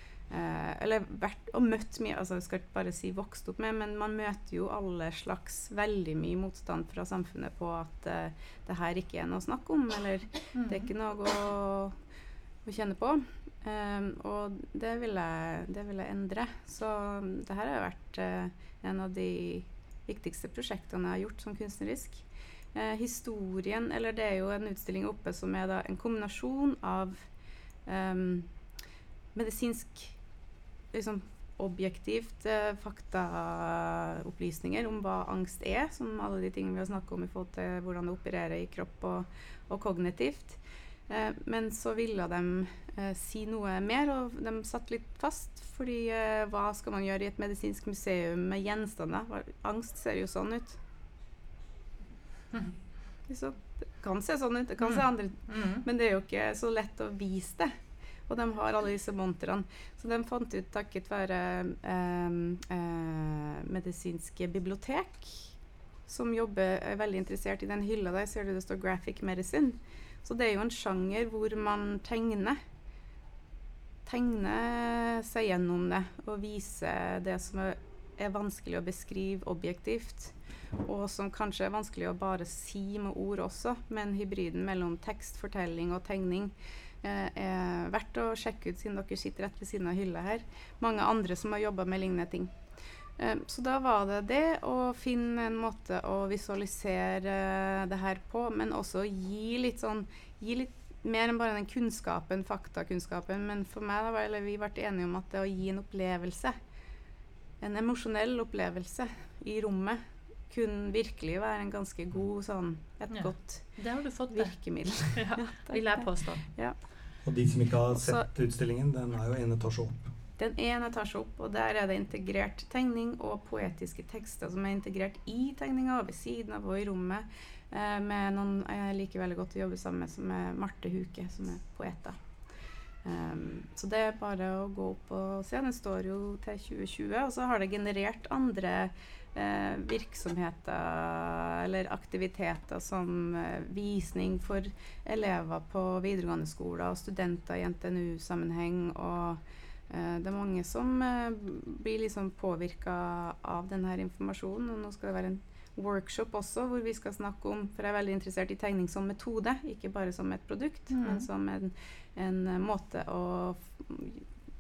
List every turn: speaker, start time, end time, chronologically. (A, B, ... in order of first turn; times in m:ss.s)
0:00.3-0:12.0 A
0:10.6-0:10.9 B
0:12.6-0:27.3 A
0:27.9-0:28.5 A
0:29.4-0:30.2 A
0:30.9-0:50.8 A
0:53.3-0:57.7 A
0:54.8-0:55.8 B
0:58.3-1:05.5 A
1:06.1-1:12.6 A
1:14.1-1:20.3 A
1:20.8-1:32.6 A
1:33.2-1:46.6 A
1:47.6-1:53.8 A
1:53.1-1:54.6 B
1:54.3-1:56.8 A
1:55.1-1:56.4 B
1:57.2-2:00.1 C
1:58.0-1:58.3 A
2:00.4-2:12.2 A
2:13.0-2:44.2 A
2:40.9-2:41.3 B